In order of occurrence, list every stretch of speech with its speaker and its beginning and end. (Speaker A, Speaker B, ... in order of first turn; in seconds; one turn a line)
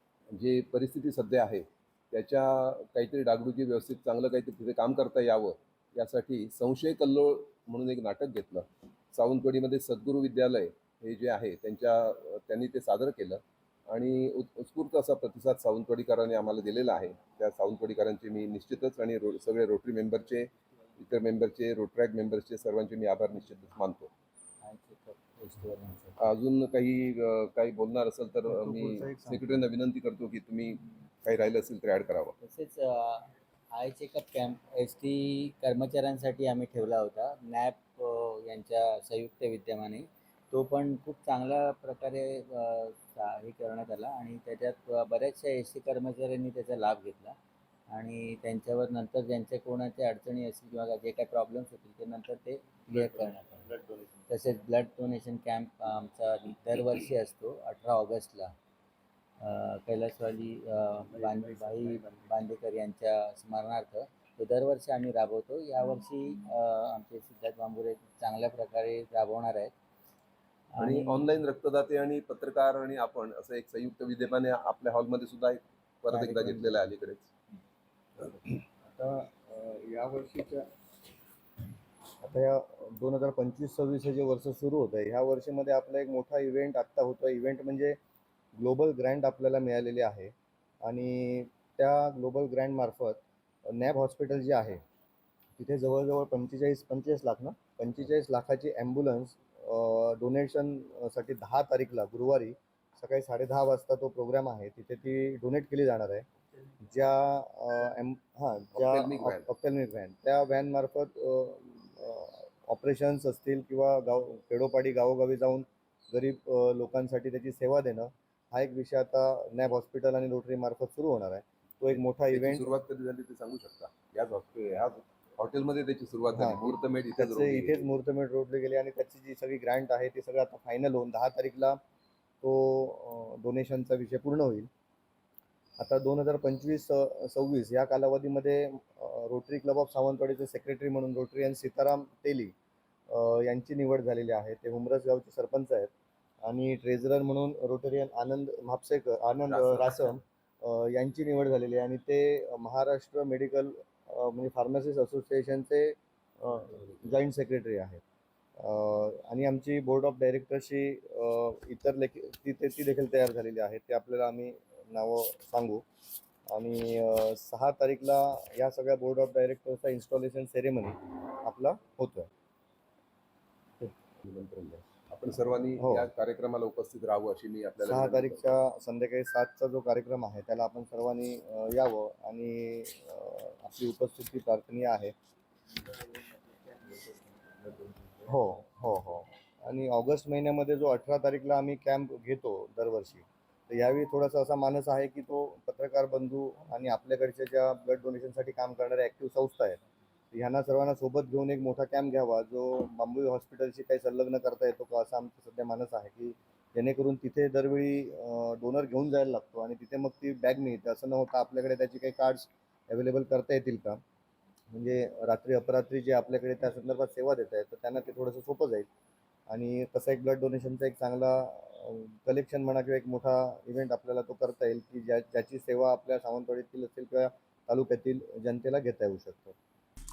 Speaker A: 0.3-24.1
Speaker B: 24.6-26.2
Speaker A: 26.2-32.4
Speaker C: 28.5-29.4
Speaker B: 32.4-47.4
Speaker B: 47.9-53.6
Speaker C: 52.9-54.2
Speaker B: 54.3-58.5
Speaker B: 59.4-69.7
Speaker C: 61.1-62.4
Speaker B: 70.7-71.3
Speaker A: 70.8-77.3
Speaker B: 76.1-76.9
Speaker C: 78.2-80.7
Speaker C: 82.2-88.0
Speaker C: 88.5-94.8
Speaker C: 95.6-106.3
Speaker C: 106.8-122.7
Speaker A: 108.7-109.5
Speaker A: 122.3-127.9
Speaker C: 126.3-131.8
Speaker C: 132.4-134.7
Speaker C: 135.8-142.5
Speaker C: 143.1-145.9
Speaker C: 146.4-158.0
Speaker A: 149.5-150.2
Speaker C: 158.6-165.8
Speaker C: 166.5-172.3
Speaker A: 174.2-178.6
Speaker C: 175.8-176.1
Speaker C: 177.8-185.1
Speaker C: 188.2-199.8
Speaker C: 200.3-214.0
Speaker C: 214.7-218.9
Speaker C: 219.5-229.6